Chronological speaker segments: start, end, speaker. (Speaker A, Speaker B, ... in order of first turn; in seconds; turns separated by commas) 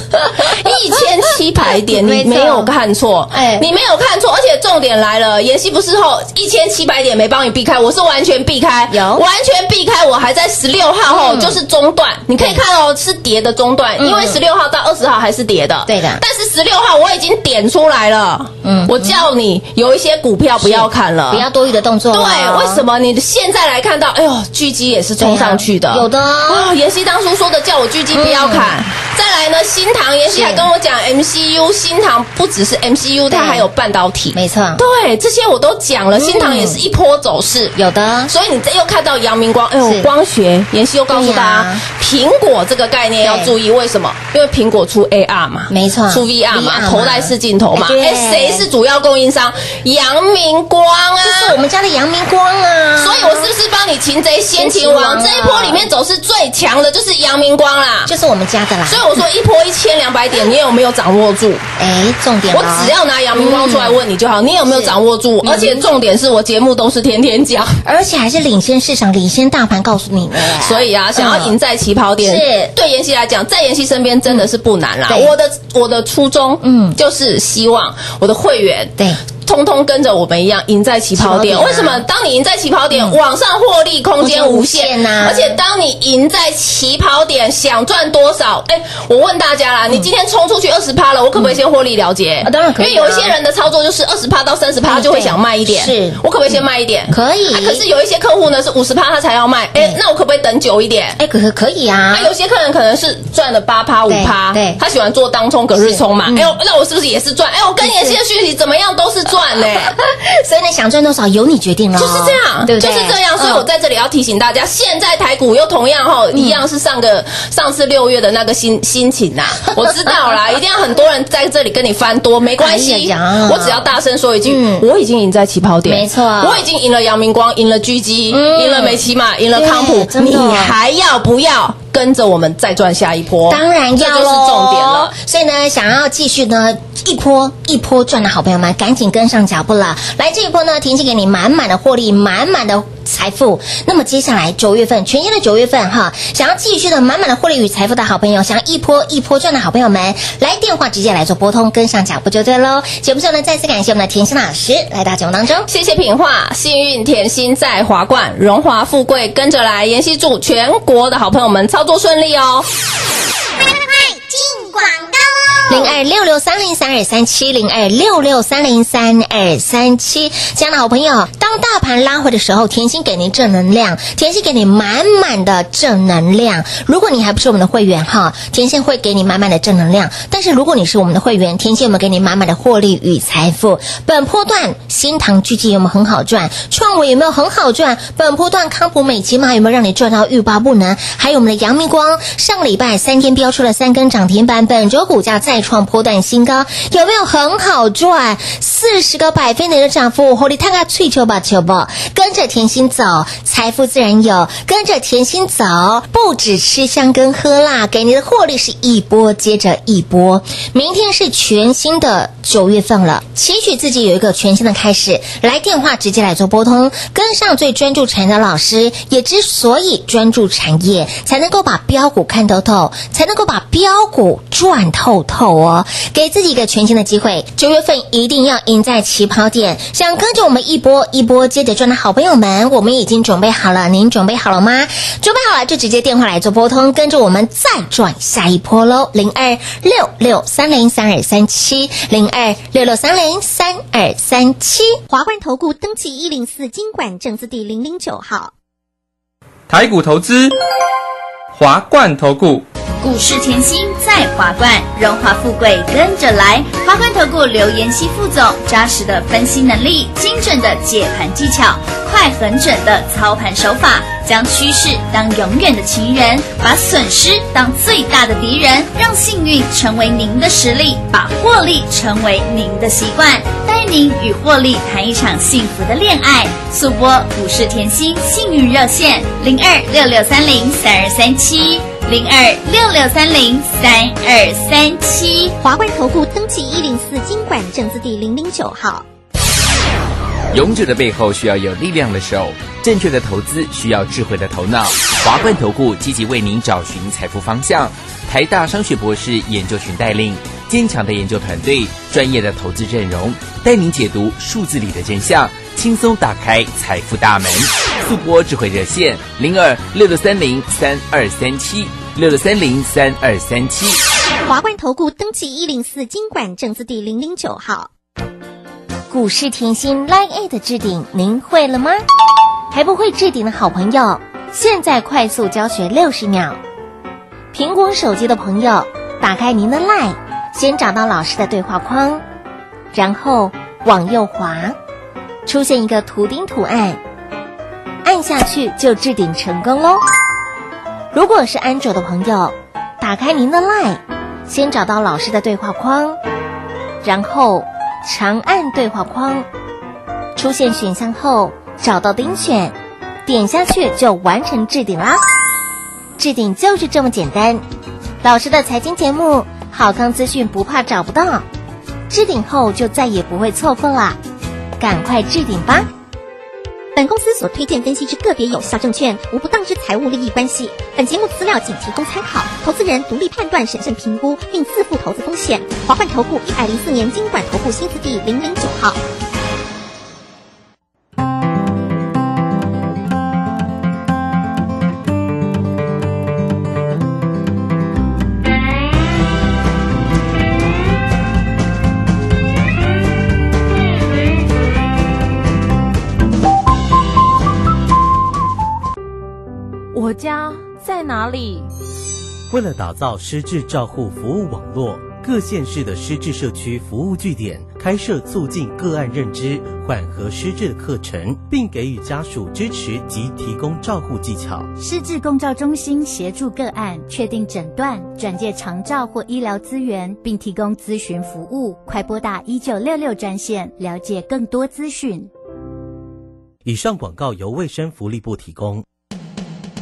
Speaker A: 0.4-21.4, Speaker B: 0.5-2.7, Speaker B: 3.3-3.7, Speaker B: 8.9-9.2, Speaker B: 11.1-11.6, Speaker B: 12.3-12.6, Speaker B: 14.0-14.4, Speaker B: 15.9-16.2, Speaker B: 18.6-19.3, Speaker B: 20.6-22.9, Speaker A: 22.1-37.8, Speaker B: 25.2-26.7, Speaker B: 28.1-28.8, Speaker B: 30.3-30.7, Speaker B: 33.3-33.7, Speaker B: 34.3-34.8, Speaker B: 36.1-36.8, Speaker B: 37.8-38.3, Speaker A: 38.3-51.6, Speaker B: 39.8-40.1, Speaker B: 41.1-41.8, Speaker B: 43.2-43.5, Speaker B: 45.7-48.7, Speaker B: 51.2-53.5, Speaker A: 53.0-58.1, Speaker B: 54.6-55.9, Speaker B: 58.1-59.2, Speaker A: 58.9-61.6, Speaker B: 61.8-64.0, Speaker A: 62.5-67.8, Speaker B: 64.7-65.9, Speaker B: 67.8-71.6, Speaker A: 70.6-101.2, Speaker B: 72.2-72.7, Speaker B: 75.1-75.3, Speaker B: 76.6-77.0, Speaker B: 81.2-82.1, Speaker B: 82.9-83.2, Speaker B: 84.2-85.6, Speaker B: 91.3-91.6, Speaker B: 92.4-93.3, Speaker B: 94.8-97.8, Speaker B: 99.7-100.0, Speaker B: 101.2-102.3, Speaker A: 102.1-109.9, Speaker B: 104.1-104.8, Speaker B: 105.7-106.6, Speaker B: 107.8-108.2, Speaker B: 109.3-113.7, Speaker A: 112.0-135.1, Speaker B: 116.3-116.6, Speaker B: 119.6-120.3, Speaker B: 122.6-123.9, Speaker B: 124.4-124.9, Speaker B: 125.9-126.7, Speaker B: 128.3-130.8, Speaker B: 133.5-155.7, Speaker A: 155.7-162.7, Speaker C: 164.2-164.8, Speaker B: 165.7-245.0, Speaker C: 245.1-248.5, Speaker D: 249.7-250.5, Speaker D: 251.5-252.7, Speaker E: 253.0-285.6, Speaker C: 285.6-289.1, Speaker F: 290.5-314.0, Speaker C: 314.4-317.9, Speaker B: 319.1-322.0, Speaker B: 322.7-326.6, Speaker B: 327.5-332.2, Speaker B: 332.9-334.8, Speaker B: 335.5-337.0, Speaker B: 338.0-340.0, Speaker B: 341.1-346.2, Speaker B: 347.0-349.5, Speaker B: 350.4-355.2, Speaker B: 356.2-357.6, Speaker B: 358.2-361.4, Speaker B: 362.1-364.2, Speaker B: 364.8-365.9, Speaker C: 366.9-379.0, Speaker G: 399.9-401.7, Speaker H: 402.5-414.7, Speaker G: 414.8-425.3, Speaker H: 426.6-428.9